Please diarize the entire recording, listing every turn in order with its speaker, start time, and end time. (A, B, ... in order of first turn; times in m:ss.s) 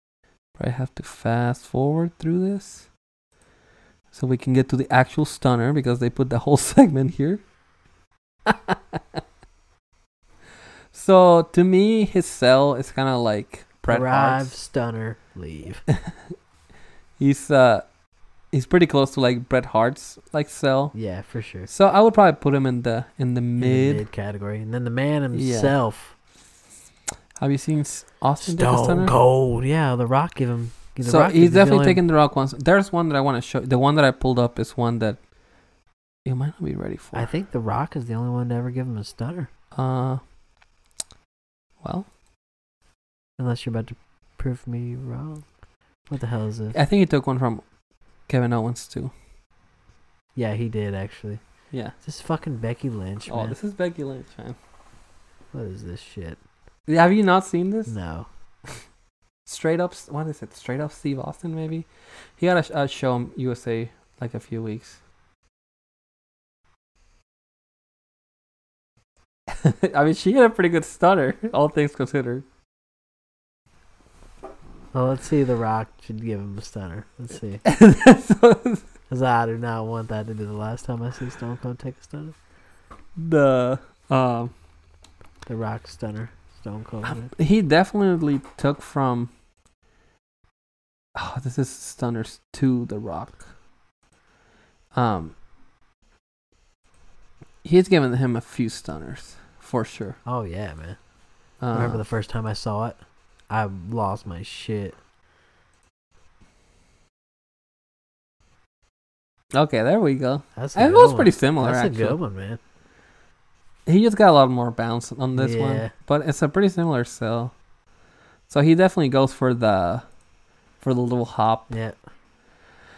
0:00.6-0:02.9 A
0:04.1-0:07.4 A
0:08.5-0:09.0 A
0:10.9-0:14.5 A
0:13.9-0:15.8 B
0:15.9-0:16.2 A
0:17.2-0:17.8 A
0:18.5-0:20.9 A
0:20.9-0:21.7 B
0:21.7-0:24.0 A
0:23.6-0:26.1 B
0:25.3-0:25.7 A
0:27.4-0:29.2 A
0:28.4-0:32.0 B
0:31.0-0:35.2 A
0:36.2-0:37.3 A
0:37.1-0:39.5 B
0:39.7-0:40.2 A
0:41.8-0:42.1 A
0:43.4-0:45.4 B
0:46.1-0:46.8 B
0:46.7-0:47.6 A
0:48.3-0:49.1 A
0:50.3-0:51.4 B
0:52.0-0:53.6 B
0:53.3-0:54.6 A
0:55.5-0:56.4 B
0:56.9-0:57.9 A
0:57.9-0:58.3 B
0:59.4-1:01.9 A
1:02.4-1:05.0 A
1:09.5-1:12.4 A
1:14.9-1:17.6 B
1:17.6-1:18.9 A
1:19.1-1:22.4 B
1:23.2-1:24.5 A
1:25.4-1:27.3 B
1:27.0-1:29.3 A
1:31.1-1:33.5 A
1:34.9-1:35.4 A
1:37.6-1:40.2 A
1:40.2-1:41.0 B
1:41.6-1:42.0 A
1:41.7-1:43.0 B
1:43.5-1:45.0 B
1:49.5-1:52.2 A
1:50.6-1:52.6 B
1:53.9-1:57.5 A
1:55.4-1:55.9 B
1:58.5-2:00.0 A
2:00.8-2:01.7 A
2:01.7-2:01.9 B